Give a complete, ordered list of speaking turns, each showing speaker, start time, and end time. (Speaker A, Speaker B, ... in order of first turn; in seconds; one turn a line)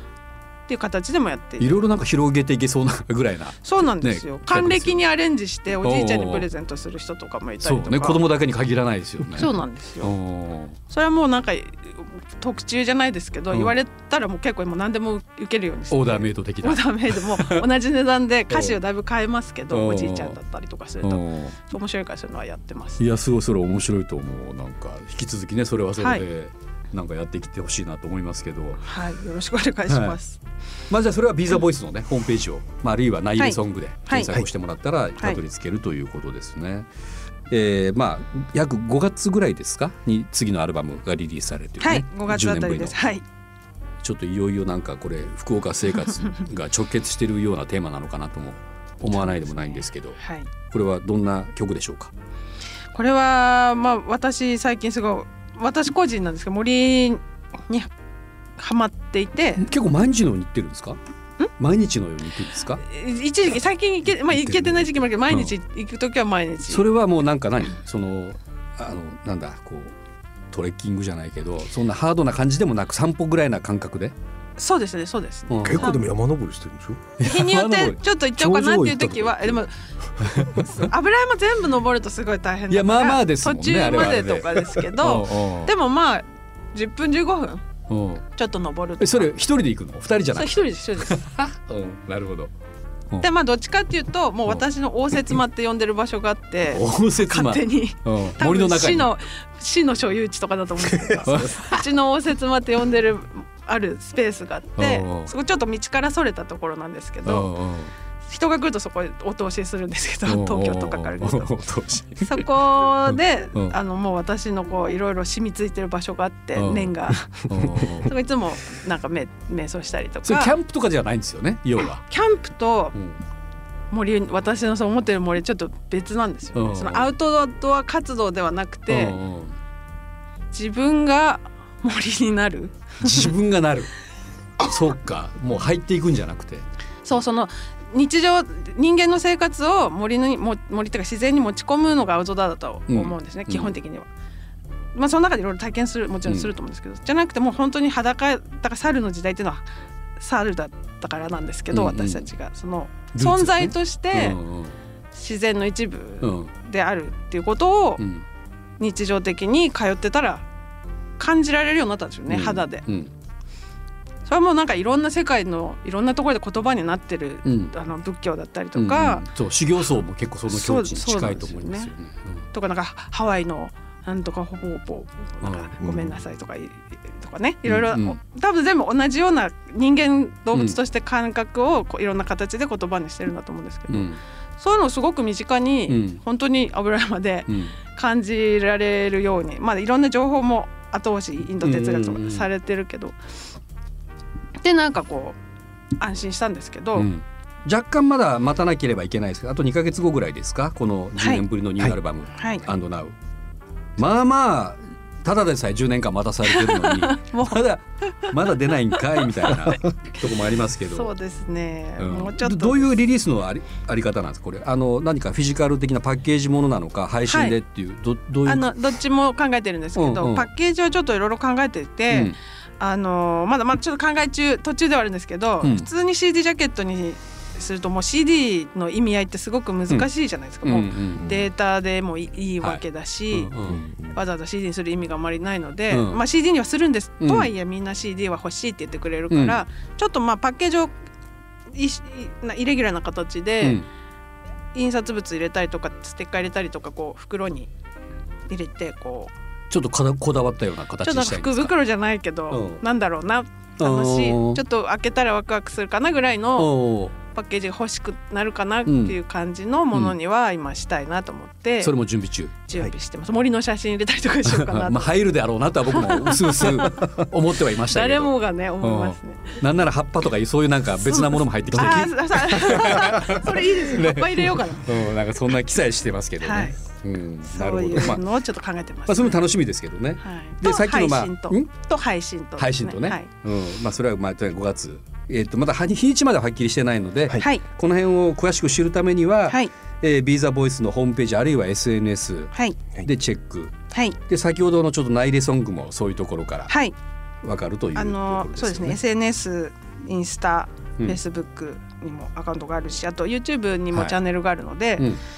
Speaker A: 0.7-1.8
Speaker B: 1.6-5.0
Speaker A: 3.6-8.2
Speaker B: 5.8-6.5
Speaker B: 7.6-10.8
Speaker A: 9.4-10.1
Speaker A: 10.9-23.0
Speaker B: 15.9-17.6
Speaker B: 18.5-18.8
Speaker B: 19.7-20.4
Speaker B: 21.0-21.6
Speaker B: 23.0-28.9
Speaker A: 26.0-26.2
Speaker A: 28.8-30.4
Speaker B: 29.9-30.2
Speaker B: 30.9-36.9
Speaker A: 33.4-34.4
Speaker B: 37.5-43.0
Speaker A: 41.8-43.2
Speaker B: 44.0-50.2
Speaker A: 49.2-50.5
Speaker B: 50.7-52.1
Speaker A: 52.9-57.9
Speaker A: 58.6-59.7
Speaker B: 59.6-61.0
Speaker B: 61.6-62.8
Speaker A: 62.8-66.8
Speaker B: 64.4-65.5
Speaker B: 66.7-69.9
Speaker B: 70.5-74.1
Speaker A: 74.6-76.0
Speaker B: 75.5-75.9
Speaker C: 75.7-77.1
Speaker B: 77.2-79.0
Speaker A: 77.2-87.6
Speaker C: 78.4-79.3
Speaker B: 80.2-80.7
Speaker B: 82.7-85.7
Speaker B: 87.9-88.3
Speaker A: 88.4-89.3
Speaker B: 89.0-92.5
Speaker A: 90.3-91.3
Speaker A: 93.2-107.5
Speaker B: 96.7-99.1
Speaker B: 101.2-101.8
Speaker B: 104.8-105.3
Speaker B: 107.3-107.9
Speaker A: 108.3-111.5
Speaker B: 110.3-112.5
Speaker A: 112.2-120.5
Speaker B: 113.1-113.8
Speaker B: 116.6-118.1
Speaker B: 120.2-122.0
Speaker A: 122.1-123.0
Speaker B: 123.0-123.2
Speaker A: 123.9-129.2
Speaker B: 126.5-127.1
Speaker B: 128.9-129.6
Speaker A: 130.5-133.3
Speaker B: 133.0-133.9
Speaker B: 134.6-136.7
Speaker A: 137.1-144.1
Speaker B: 142.9-143.7
Speaker A: 144.9-149.7
Speaker A: 150.2-154.4
Speaker B: 151.7-152.3
Speaker B: 153.1-154.8
Speaker A: 155.1-158.0
Speaker B: 156.2-156.5
Speaker B: 158.0-158.2
Speaker A: 158.8-160.5
Speaker A: 161.2-162.8
Speaker B: 162.3-163.1
Speaker A: 164.3-169.3
Speaker B: 167.4-167.7
Speaker B: 168.8-172.4
Speaker A: 170.5-171.9
Speaker A: 172.5-193.2
Speaker B: 175.4-175.8
Speaker C: 175.8-176.2
Speaker B: 177.7-178.2
Speaker B: 183.9-184.2
Speaker B: 185.9-186.2
Speaker B: 187.5-187.7
Speaker B: 191.6-192.5
Speaker A: 194.6-195.4
Speaker A: 196.0-197.1
Speaker B: 197.0-203.1
Speaker A: 201.2-201.4
Speaker A: 202.3-202.7
Speaker B: 204.0-211.1
Speaker A: 206.5-208.3
Speaker A: 208.9-212.9
Speaker B: 212.0-218.7
Speaker A: 217.3-217.6
Speaker A: 218.5-233.5
Speaker B: 220.0-220.5
Speaker B: 222.1-222.4
Speaker B: 225.6-225.9
Speaker B: 230.6-231.2
Speaker C: 231.2-231.5
Speaker B: 232.6-233.8
Speaker C: 233.7-234.2
Speaker A: 234.1-240.9
Speaker B: 235.9-236.2
Speaker B: 237.2-237.5
Speaker B: 239.3-239.6
Speaker A: 241.7-243.8
Speaker A: 244.7-247.7
Speaker A: 248.5-249.3
Speaker B: 249.7-251.7
Speaker A: 251.0-261.9
Speaker B: 252.5-252.8
Speaker B: 253.8-254.6
Speaker B: 256.6-257.1
Speaker B: 258.9-259.2
Speaker B: 261.8-262.6
Speaker A: 262.7-265.1
Speaker B: 264.4-278.2
Speaker A: 265.9-267.2
Speaker A: 267.9-269.6
Speaker A: 271.0-275.1
Speaker A: 276.4-276.8
Speaker A: 277.5-279.4
Speaker B: 279.1-281.7
Speaker A: 280.2-283.3
Speaker B: 282.6-292.5
Speaker A: 287.4-287.6
Speaker A: 292.5-292.8
Speaker B: 293.0-293.7
Speaker A: 293.9-294.2
Speaker B: 294.3-296.7
Speaker A: 296.7-296.9
Speaker B: 297.4-299.0
Speaker A: 297.9-305.1
Speaker B: 303.9-304.2